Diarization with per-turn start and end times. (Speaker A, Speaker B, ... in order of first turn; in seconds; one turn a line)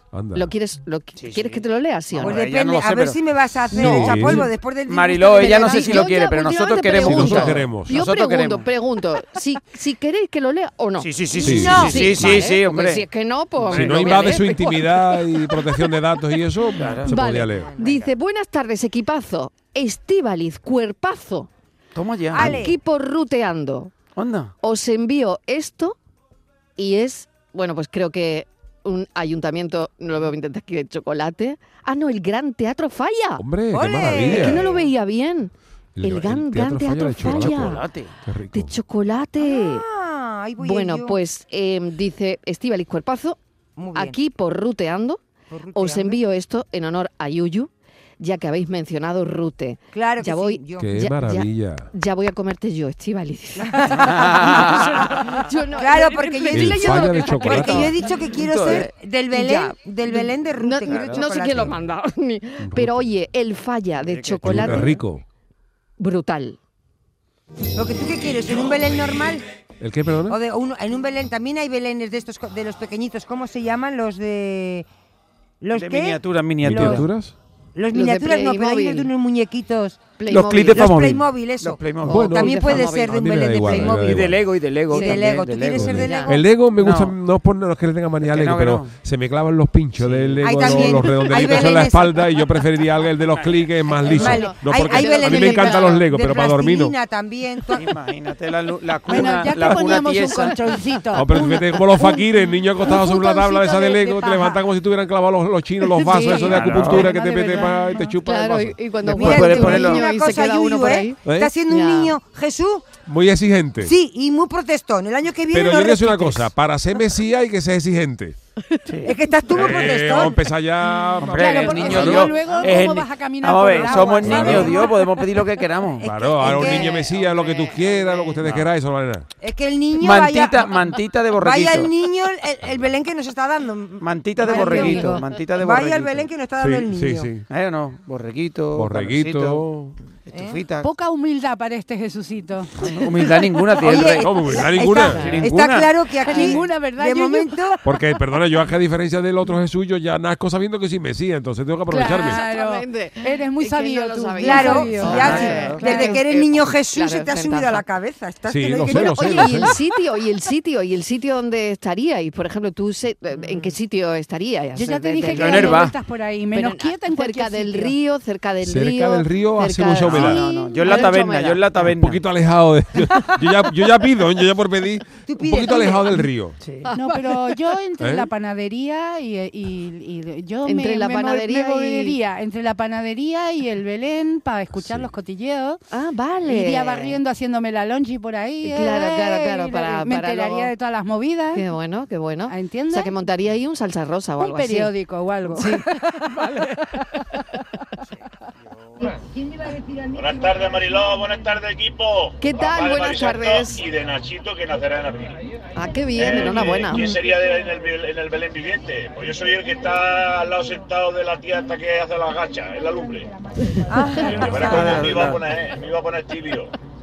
Speaker A: 0.1-0.5
Speaker B: 0.3-2.4
Speaker C: 1.2-3.2
Speaker D: 2.2-6.1
Speaker A: 3.7-4.5
Speaker C: 3.8-8.7
Speaker B: 5.4-15.9
Speaker A: 7.0-8.0
Speaker C: 11.0-13.1
Speaker A: 11.4-12.4
Speaker C: 13.6-14.2
Speaker A: 13.7-17.8
Speaker C: 16.8-17.1
Speaker B: 17.1-21.5
Speaker D: 17.4-18.1
Speaker C: 21.9-22.7
Speaker D: 22.3-22.8
Speaker B: 22.4-23.9
Speaker C: 24.2-24.5
Speaker B: 24.6-26.0
Speaker B: 26.8-33.4
Speaker A: 33.4-34.6
Speaker D: 33.7-34.9
Speaker B: 34.3-37.8
Speaker A: 36.0-38.8
Speaker C: 37.2-38.2
Speaker B: 38.5-39.8
Speaker D: 39.4-41.2
Speaker B: 40.6-43.4
Speaker D: 43.8-44.2
Speaker B: 44.0-45.2
Speaker D: 45.5-46.2
Speaker B: 45.8-58.0
Speaker D: 49.9-50.9
Speaker A: 50.8-51.9
Speaker D: 53.6-61.7
Speaker C: 54.1-54.6
Speaker E: 56.1-56.4
Speaker A: 56.5-58.0
Speaker C: 58.3-58.9
Speaker B: 58.7-65.0
Speaker C: 60.9-61.3
Speaker A: 62.6-63.1
Speaker C: 64.0-64.9
Speaker A: 64.4-65.2
Speaker B: 66.0-66.6
Speaker D: 67.8-69.4
Speaker A: 69.8-70.4
Speaker D: 70.3-74.9
Speaker D: 75.6-77.1
Speaker C: 75.7-77.1
Speaker A: 76.6-77.3
Speaker D: 77.8-84.4
Speaker B: 77.9-79.1
Speaker B: 80.2-80.9
Speaker A: 80.3-81.2
Speaker C: 80.3-82.8
Speaker B: 82.0-84.0
Speaker A: 82.1-84.4
Speaker C: 84.0-87.2
Speaker D: 84.9-86.3
Speaker B: 84.9-85.2
Speaker A: 85.8-96.9
Speaker B: 85.9-86.4
Speaker C: 88.2-88.9
Speaker C: 90.0-91.0
Speaker D: 90.4-92.2
Speaker B: 93.9-96.0
Speaker D: 94.0-97.9
Speaker C: 97.7-100.7
Speaker E: 99.1-104.6
Speaker A: 101.1-109.8
Speaker B: 105.9-106.9
Speaker E: 106.1-108.2
Speaker C: 106.5-107.1
Speaker B: 108.2-111.2
Speaker C: 109.1-110.0
Speaker D: 109.1-112.9
Speaker A: 111.3-111.5
Speaker B: 111.7-112.1
Speaker A: 113.1-113.9
Speaker D: 113.8-116.5
Speaker A: 115.5-118.4
Speaker C: 118.9-119.2
Speaker D: 119.1-120.4
Speaker A: 119.5-122.3
Speaker C: 121.2-126.1
Speaker E: 121.2-125.0
Speaker D: 123.7-124.9
Speaker A: 124.2-124.8
Speaker D: 126.0-127.1
Speaker A: 126.0-129.3
Speaker B: 126.5-128.3
Speaker C: 128.4-128.7
Speaker D: 129.4-130.8
Speaker C: 129.9-131.9
Speaker D: 131.4-137.3
Speaker C: 134.0-136.3
Speaker B: 134.5-135.1
Speaker A: 136.6-137.4
Speaker C: 137.5-139.7
Speaker A: 138.8-140.0
Speaker C: 140.3-140.9
Speaker D: 140.3-140.6
Speaker E: 140.8-142.7
Speaker C: 142.8-144.4
Speaker D: 143.8-147.8
Speaker A: 143.9-145.3
Speaker B: 144.9-145.4
Speaker C: 145.1-146.0
Speaker E: 146.2-148.1
Speaker A: 147.8-152.4
Speaker E: 151.9-156.2
Speaker B: 152.1-157.8
Speaker D: 154.4-159.7
Speaker C: 155.2-155.8
Speaker A: 158.5-159.8
Speaker B: 159.1-165.9
Speaker E: 164.8-168.0
Speaker C: 165.4-166.0
Speaker B: 166.5-171.7
Speaker A: 168.6-170.4
Speaker C: 170.0-172.2
Speaker A: 171.8-176.6
Speaker D: 175.3-176.2
Speaker C: 176.6-176.9
Speaker B: 176.9-177.5
Speaker E: 176.9-185.8
Speaker A: 178.0-178.3
Speaker B: 180.7-182.2
Speaker A: 184.7-185.1
Speaker B: 185.9-187.2
Speaker E: 186.4-191.7
Speaker B: 188.6-190.7
Speaker B: 191.5-194.9
Speaker E: 192.5-193.1
Speaker E: 194.4-197.4
Speaker B: 195.5-195.9
Speaker F: 200.1-205.4
Speaker B: 202.4-203.8
Speaker B: 205.8-207.2
Speaker F: 206.2-213.3
Speaker D: 213.9-215.2
Speaker F: 214.1-216.7
Speaker C: 214.4-215.6